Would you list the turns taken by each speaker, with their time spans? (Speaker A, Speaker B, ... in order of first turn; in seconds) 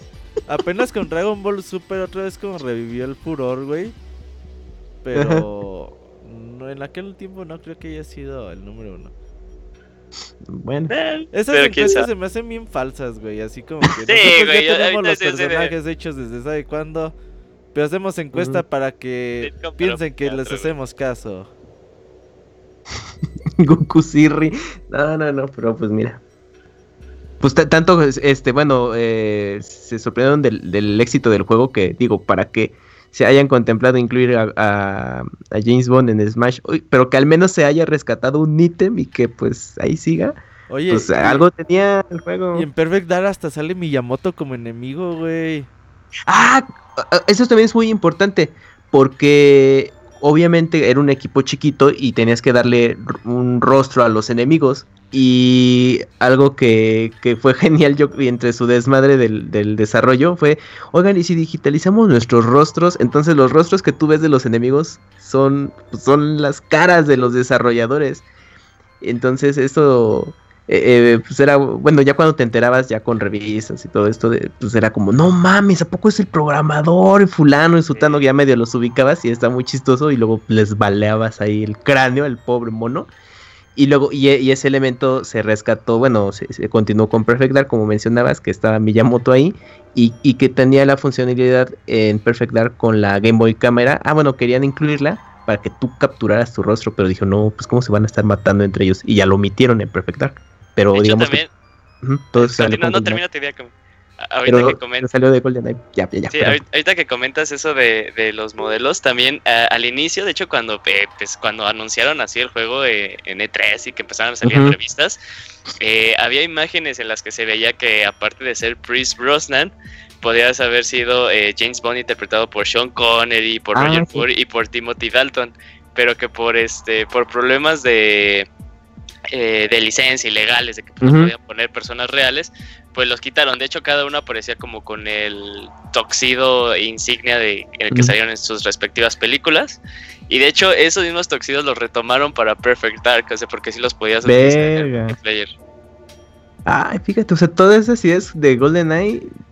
Speaker A: 0.5-3.9, 5.0-9.1, 11.3-17.1, 17.7-21.5, 40.7-41.5, 42.5-45.7
Speaker B: 5.1-5.4, 10.4-10.9, 18.3-18.6, 23.6-26.2, 27.4-40.4, 40.9-42.7, 46.3-68.2, 69.0-83.1, 83.7-101.4, 102.0-103.2, 104.4-106.6, 114.4-114.8, 123.7-124.2, 131.0-131.3, 144.2-145.2, 146.7-149.3
Speaker C: 10.9-12.1, 14.1-15.7, 19.4-20.7, 77.9-78.2, 100.9-101.5, 102.4-103.7, 104.2-105.1, 106.3-115.2, 115.8-128.5, 129.3-145.5